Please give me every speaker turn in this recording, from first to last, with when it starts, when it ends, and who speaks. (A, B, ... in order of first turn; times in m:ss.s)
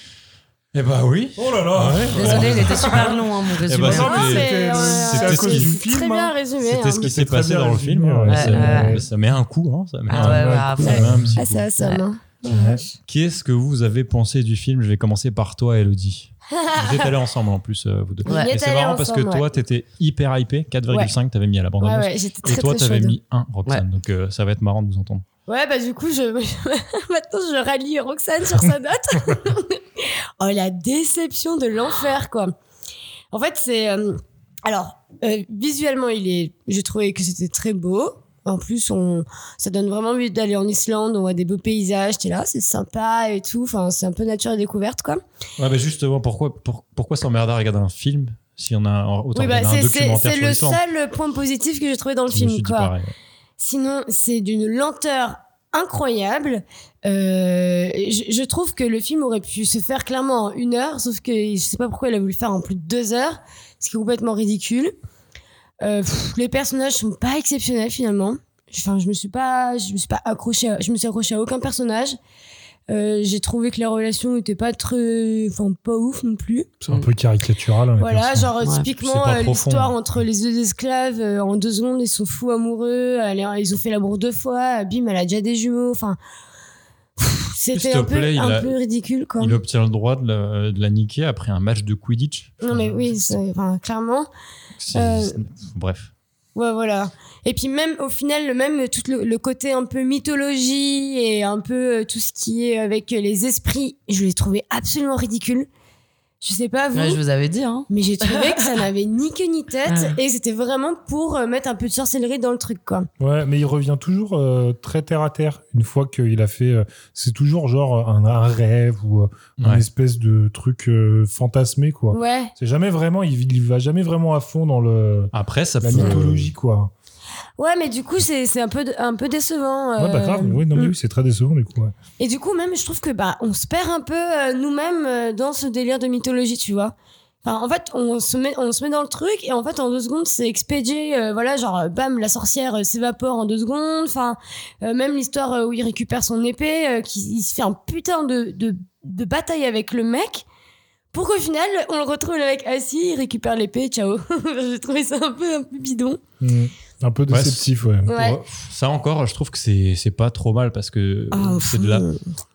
0:00.7-0:03.1 A
0:01.4-0:03.2 B
0:02.1-0:04.5 C
0:03.7-0:05.8 A
0:03.8-0:06.3 B
0:03.9-0:07.1 D
0:06.6-0:11.7 A
0:07.0-0:09.1 B
0:08.3-0:09.0 C
0:10.1-0:11.2 C
0:10.1-0:11.4 B
0:10.8-0:12.9 D
0:12.5-0:12.8 B
0:13.1-0:25.2 A
0:16.6-0:17.0 D
0:18.2-0:19.5 D
0:21.8-0:23.2 D
0:25.5-0:32.5 D
0:33.3-0:45.2 D
0:45.6-0:50.8 A
0:49.4-0:52.9 D
0:52.3-0:53.1 A
0:53.6-1:04.9 D
1:05.8-1:12.2 D
1:12.9-1:16.7 D
1:16.8-1:18.5 B
1:18.0-1:26.2 D
1:19.0-1:19.9 A
1:27.2-1:29.6 D
1:27.7-1:28.8 A
1:29.4-1:33.4 A
1:32.6-1:34.3 D
1:34.8-1:36.1 A
1:34.9-1:35.4 D
1:36.6-1:45.7 D
1:46.4-1:47.2 D
1:46.9-1:48.8 C
1:47.9-1:53.1 D
1:49.9-1:50.2 C
1:53.2-2:06.9 B
1:59.6-1:59.8 A
2:02.1-2:02.5 D
2:05.3-2:06.5 A
2:07.6-2:10.9 D
2:10.0-2:11.9 B
2:12.2-2:30.4 D
2:31.1-2:36.2 D
2:36.4-2:38.1 B
2:37.3-2:42.1 A
2:38.1-2:38.4 D
2:41.3-2:42.2 D